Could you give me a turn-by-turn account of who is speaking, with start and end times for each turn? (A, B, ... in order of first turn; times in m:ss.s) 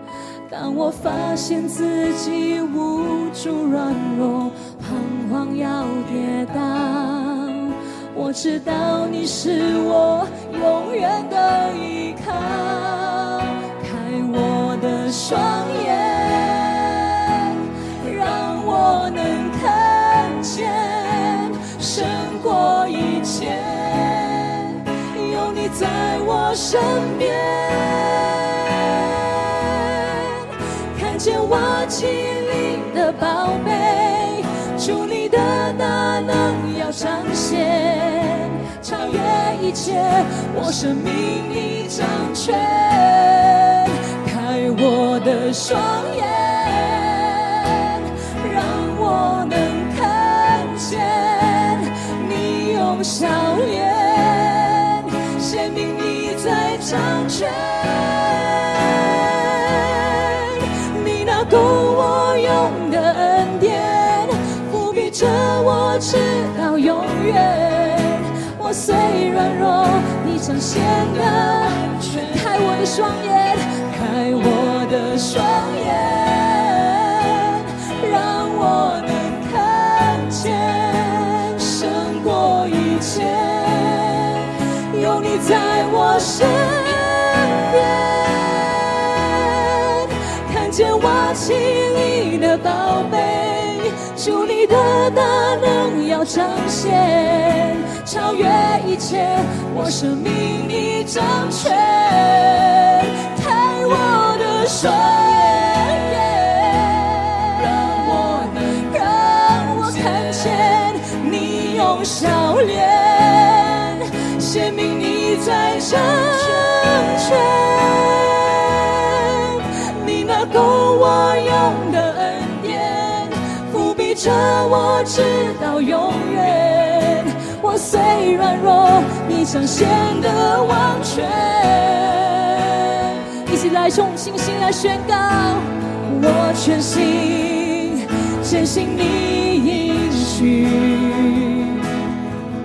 0:00.5-2:21.9 A